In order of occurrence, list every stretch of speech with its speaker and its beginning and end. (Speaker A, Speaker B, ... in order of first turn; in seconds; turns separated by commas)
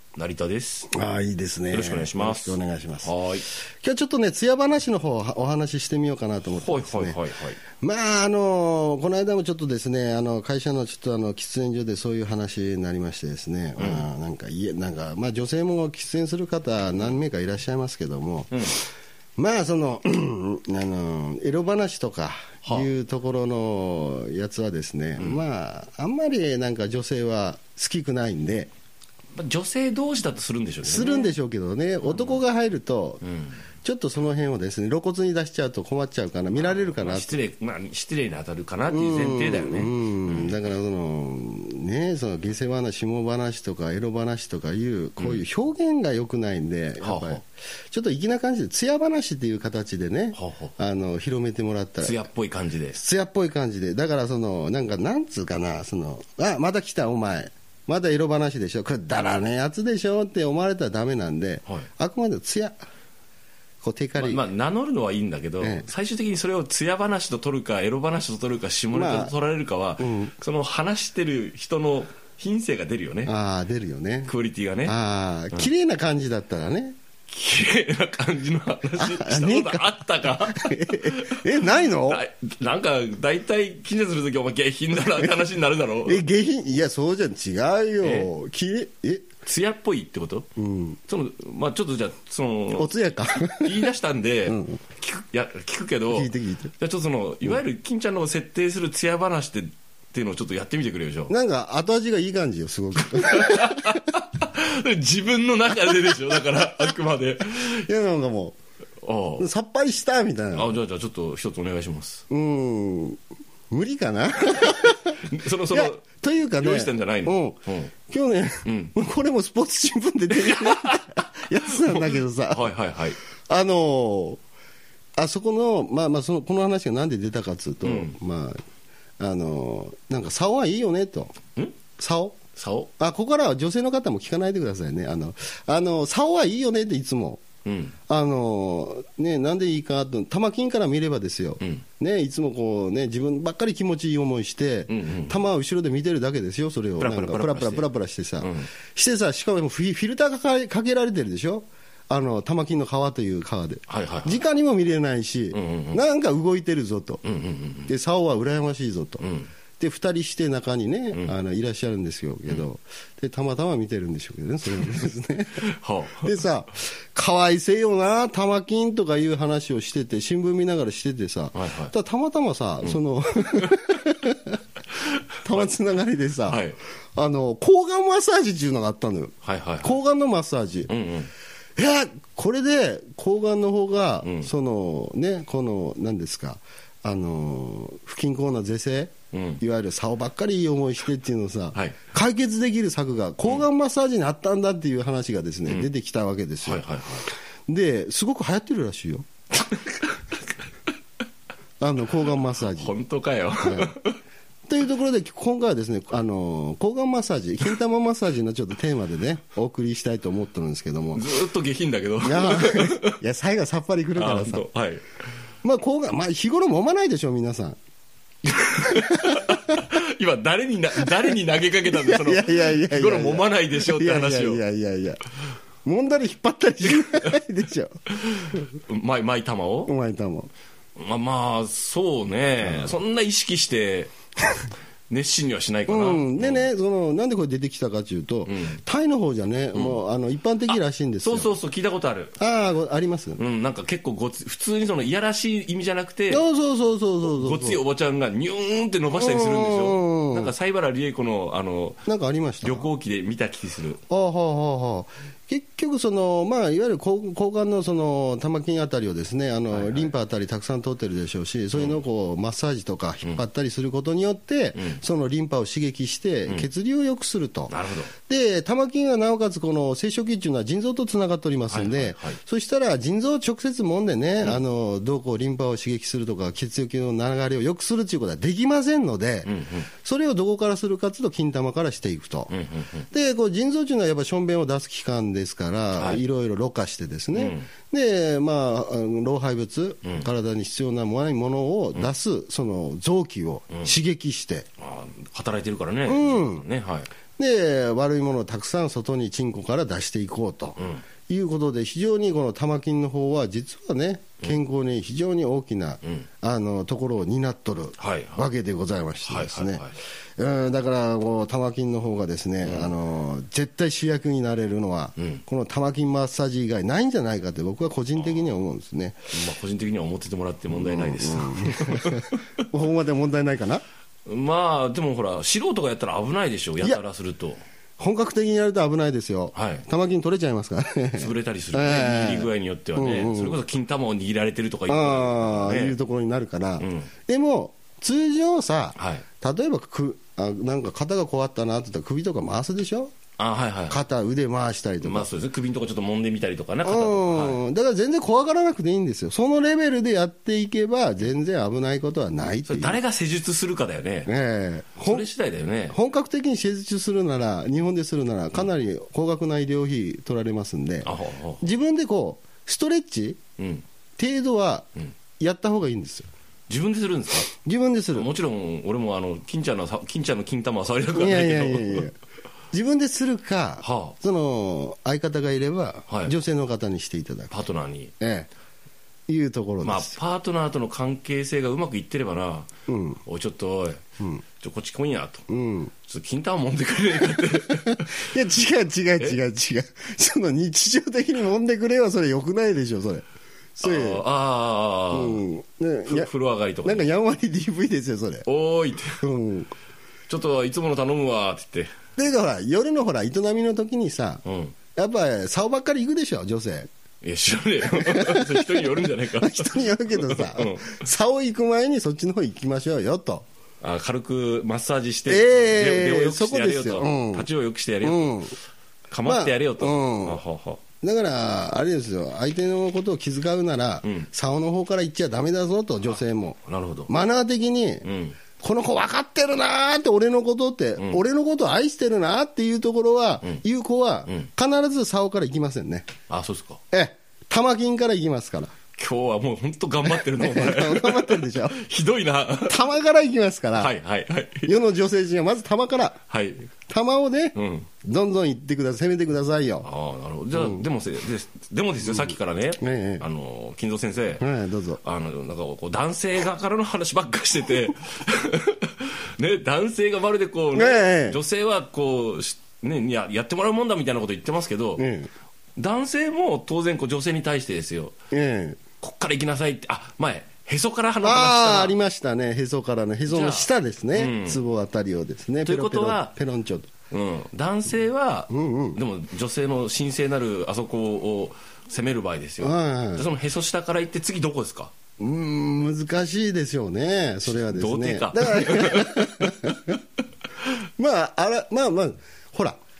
Speaker A: 0.1-0.9, Speaker B: 0.9-3.1, Speaker A: 1.7-3.5, Speaker B: 3.7-7.2, Speaker A: 6.5-7.6, Speaker B: 7.8-18.8, Speaker A: 13.8-14.1, Speaker A: 18.5-18.8, Speaker B: 19.4-28.7, Speaker A: 29.3-31.3, Speaker B: 30.8-33.2, Speaker A: 32.0-32.4, Speaker A: 33.2-33.6, Speaker B: 33.8-37.4, Speaker A: 36.5-40.6, Speaker B: 38.9-52.2, Speaker A: 45.2-45.4, Speaker A: 47.0-47.4, Speaker A: 50.3-50.7, Speaker A: 52.0-53.0, Speaker B: 53.0-62.8, Speaker B: 63.8-64.5, Speaker A: 64.2-73.3, Speaker B: 65.6-65.9, Speaker B: 68.9-69.3, Speaker B: 70.0-70.3, Speaker B: 73.2-74.3, Speaker A: 74.2-75.0, Speaker B: 74.8-77.0, Speaker A: 77.3-86.2, Speaker B: 79.0-82.2, Speaker B: 85.2-85.4, Speaker B: 86.0-89.3, Speaker A: 88.0-88.3, Speaker A: 89.4-90.5, Speaker B: 90.6-91.0, Speaker A: 91.1-101.3, Speaker B: 92.7-93.9, Speaker B: 94.5-94.8, Speaker B: 96.1-96.7, Speaker B: 101.3-104.0, Speaker A: 103.0-107.9, Speaker B: 107.8-108.6, Speaker A: 109.0-109.5, Speaker B: 109.4-110.8, Speaker A: 110.5-112.2, Speaker B: 112.3-113.2, Speaker B: 113.7-122.7, Speaker A: 115.2-116.0, Speaker A: 116.6-117.9, Speaker A: 118.6-119.0, Speaker A: 120.4-121.0, Speaker A: 121.8-123.2, Speaker B: 123.5-124.4, Speaker B: 125.2-128.6, Speaker A: 127.8-128.1, Speaker B: 129.2-131.3, Speaker B: 132.0-132.3, Speaker A: 132.6-132.9, Speaker B: 133.0-137.4, Speaker A: 137.6-138.0, Speaker B: 138.1-157.2, Speaker A: 141.6-141.8, Speaker A: 144.9-145.4, Speaker A: 147.0-147.9, Speaker A: 148.4-148.7, Speaker A: 153.9-154.4, Speaker A: 155.5-156.0, Speaker A: 157.2-157.9, Speaker B: 157.9-159.2, Speaker A: 159.2-159.5, Speaker B: 159.8-174.6, Speaker A: 165.6-166.4, Speaker A: 171.5-171.9, Speaker B: 175.4-180.9, Speaker A: 176.4-176.8, Speaker A: 179.4-180.0, Speaker A: 180.9-181.3, Speaker B: 181.8-196.9, Speaker A: 184.2-184.5, Speaker A: 189.3-189.6, Speaker A: 191.7-192.1, Speaker A: 196.6-197.3, Speaker B: 197.7-199.2, Speaker A: 199.7-200.1, Speaker B: 201.8-202.9, Speaker A: 202.6-204.2, Speaker B: 203.6-203.9, Speaker B: 204.7-211.3, Speaker A: 211.1-213.2, Speaker B: 212.2-214.7, Speaker A: 214.2-215.2, Speaker B: 215.6-217.8, Speaker A: 218.4-224.6, Speaker B: 219.0-219.4, Speaker B: 221.8-225.2, Speaker B: 225.8-227.9, Speaker A: 226.9-227.4, Speaker A: 228.1-229.9, Speaker B: 229.9-230.5, Speaker A: 230.9-234.1, Speaker B: 232.6-232.9, Speaker A: 235.1-236.7, Speaker B: 235.9-241.5, Speaker A: 238.4-238.8, Speaker A: 239.7-240.0, Speaker A: 240.7-242.4, Speaker B: 242.4-243.4, Speaker A: 243.4-246.4, Speaker B: 246.3-247.8, Speaker A: 247.2-252.1, Speaker B: 249.1-250.5, Speaker B: 252.1-252.9, Speaker A: 252.6-254.0, Speaker B: 254.1-282.5, Speaker A: 259.7-260.1, Speaker A: 261.7-262.0, Speaker A: 264.8-265.0, Speaker A: 267.7-268.1, Speaker A: 271.7-272.4, Speaker A: 279.4-279.9, Speaker A: 282.5-283.1, Speaker B: 283.1-294.7, Speaker A: 285.9-286.2, Speaker A: 287.3-287.7, Speaker A: 290.0-290.3, Speaker A: 294.8-297.1, Speaker B: 296.1-296.7, Speaker B: 297.4-319.4, Speaker A: 300.8-301.1, Speaker A: 306.0-306.3, Speaker A: 308.0-308.4, Speaker A: 309.2-310.0, Speaker A: 312.6-312.9, Speaker A: 315.2-315.4, Speaker A: 318.2-318.5, Speaker A: 319.3-322.4, Speaker B: 320.7-323.8, Speaker A: 324.2-327.6, Speaker B: 328.0-333.6, Speaker A: 329.5-329.9, Speaker A: 331.1-336.0, Speaker B: 334.9-343.1, Speaker A: 336.8-337.1, Speaker A: 338.9-339.2, Speaker A: 343.4-344.0, Speaker B: 343.9-345.3, Speaker A: 345.0-347.6, Speaker B: 346.8-353.0, Speaker A: 352.6-354.3, Speaker B: 354.2-355.3, Speaker A: 355.0-356.0, Speaker B: 355.9-363.4, Speaker A: 361.0-361.6, Speaker A: 363.6-363.9, Speaker B: 364.2-366.3, Speaker A: 366.7-367.5, Speaker B: 367.6-368.3, Speaker A: 368.1-372.1, Speaker B: 371.1-372.1, Speaker B: 372.7-377.5, Speaker A: 373.8-374.2, Speaker A: 376.1-376.4, Speaker A: 377.5-378.1, Speaker B: 378.2-378.5, Speaker B: 379.3-380.1, Speaker A: 379.8-382.7, Speaker B: 382.9-383.2, Speaker A: 383.2-384.0, Speaker A: 384.6-385.5, Speaker B: 385.5-385.9, Speaker A: 386.0-388.3, Speaker B: 387.8-394.2, Speaker A: 393.8-395.4, Speaker B: 395.1-396.3, Speaker A: 396.0-397.1, Speaker B: 396.8-398.4, Speaker A: 398.4-399.2, Speaker B: 399.2-399.7, Speaker A: 400.3-401.9, Speaker B: 402.2-404.4, Speaker A: 404.4-404.8, Speaker B: 404.9-406.9, Speaker A: 407.2-411.1, Speaker B: 407.9-413.4, Speaker A: 413.8-418.4, Speaker B: 415.3-417.5, Speaker B: 418.0-418.6, Speaker A: 419.1-420.8, Speaker B: 419.2-420.4, Speaker B: 421.0-428.1, Speaker A: 424.0-424.3, Speaker A: 426.6-427.1, Speaker A: 428.0-428.4, Speaker B: 428.6-436.1, Speaker A: 436.3-436.8, Speaker B: 436.9-438.7, Speaker A: 438.9-442.9, Speaker B: 440.1-441.8, Speaker B: 442.6-443.9, Speaker A: 443.8-444.8, Speaker B: 444.6-446.2, Speaker A: 446.3-446.7, Speaker B: 446.9-449.9, Speaker A: 447.5-447.9, Speaker A: 449.8-454.5, Speaker B: 450.5-450.8, Speaker B: 452.8-453.2, Speaker B: 454.4-455.0, Speaker A: 455.0-465.1, Speaker B: 460.7-461.4, Speaker B: 465.0-465.3, Speaker A: 465.8-468.1, Speaker B: 468.3-468.8, Speaker A: 469.0-471.9, Speaker B: 471.2-476.9, Speaker A: 473.3-474.6, Speaker A: 475.6-476.3, Speaker A: 477.1-484.9, Speaker B: 478.5-479.0, Speaker B: 482.6-483.3, Speaker B: 485.2-490.0, Speaker A: 487.4-489.7, Speaker B: 491.0-492.8